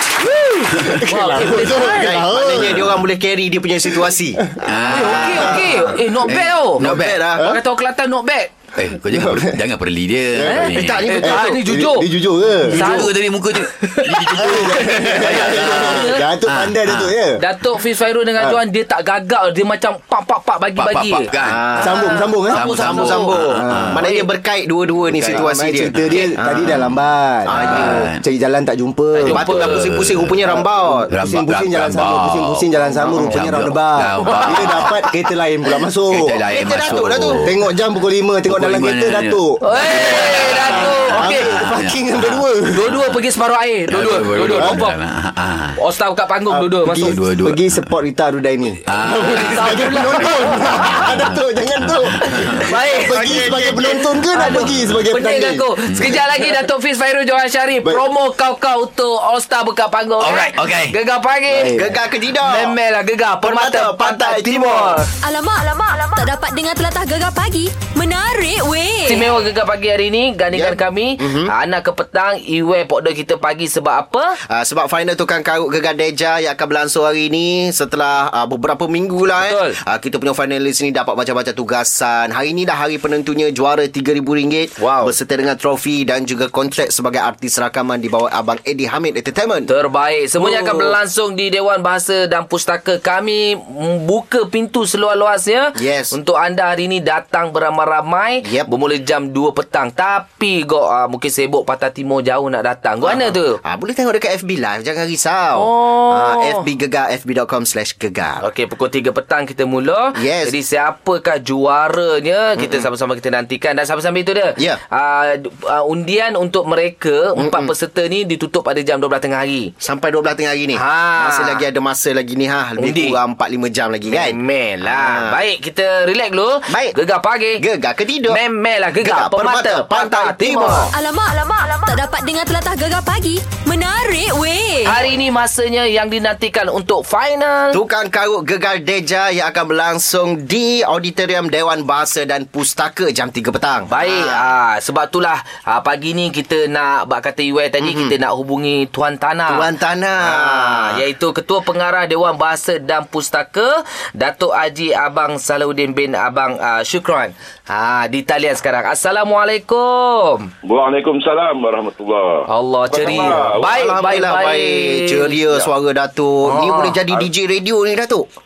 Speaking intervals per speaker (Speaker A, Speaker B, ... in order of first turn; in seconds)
Speaker A: 0.2-2.1, 4.9-8.5, 10.5-12.1, 12.7-13.1, 13.7-16.2, 17.4-23.4, 24.0-24.3, 29.1-29.9, 33.0-33.3, 39.6-41.5, 42.7-45.0, 45.8-47.2, 49.2-51.1, 52.6-61.8, 62.4-65.1, 69.0-74.4, 79.4-79.8, 84.8-85.2, 89.7-103.6, 105.5-106.6, 108.4-119.7, 120.7-121.7, 122.8-123.2, 124.1-127.6, 128.3-130.9, 134.8-137.8, 143.9-149.7, 150.2-160.5, 162.5-165.7, 166.4-167.0
Speaker B: 0.8-1.7, 2.5-2.9, 4.6-5.7, 6.2-7.2, 8.8-11.1, 12.7-17.1, 20.8-21.7, 22.5-24.1, 25.1-26.8, 27.5-28.2, 29.2-30.4, 31.1-35.1, 36.1-37.6, 38.5-43.2, 43.9-45.8, 47.0-47.9, 48.9-53.3, 54.4-55.0, 55.9-56.2, 60.2-61.0
Speaker C: 0.8-3.0, 4.4-4.7, 9.1-9.6, 10.3-10.6, 11.2-13.0, 14.4-17.4, 21.8-22.8, 23.4-24.0, 25.3-29.5, 30.4-36.4, 37.4-42.8, 46.5-55.6, 61.5-62.0
Speaker D: 1.6-4.6, 6.8-7.6, 10.7-11.6, 21.4-26.8, 27.5-28.0, 29.3-31.1, 36.5-37.5, 53.1-53.8, 61.7-62.8, 63.4-65.1, 70.5-71.5, 74.5-89.7, 90.4-91.0, 95.8-96.2, 98.4-98.7, 103.0-108.4, 110.2-110.5, 112.6-112.9, 117.4-117.7, 119.8-125.4, 126.7-127.0, 127.6-128.4, 129.0-130.9, 137.7-144.5, 147.8-148.1, 149.5-151.0, 163.0-168.3
Speaker E: 65.2-69.3, 130.9-135.0
Speaker F: 160.6-164.0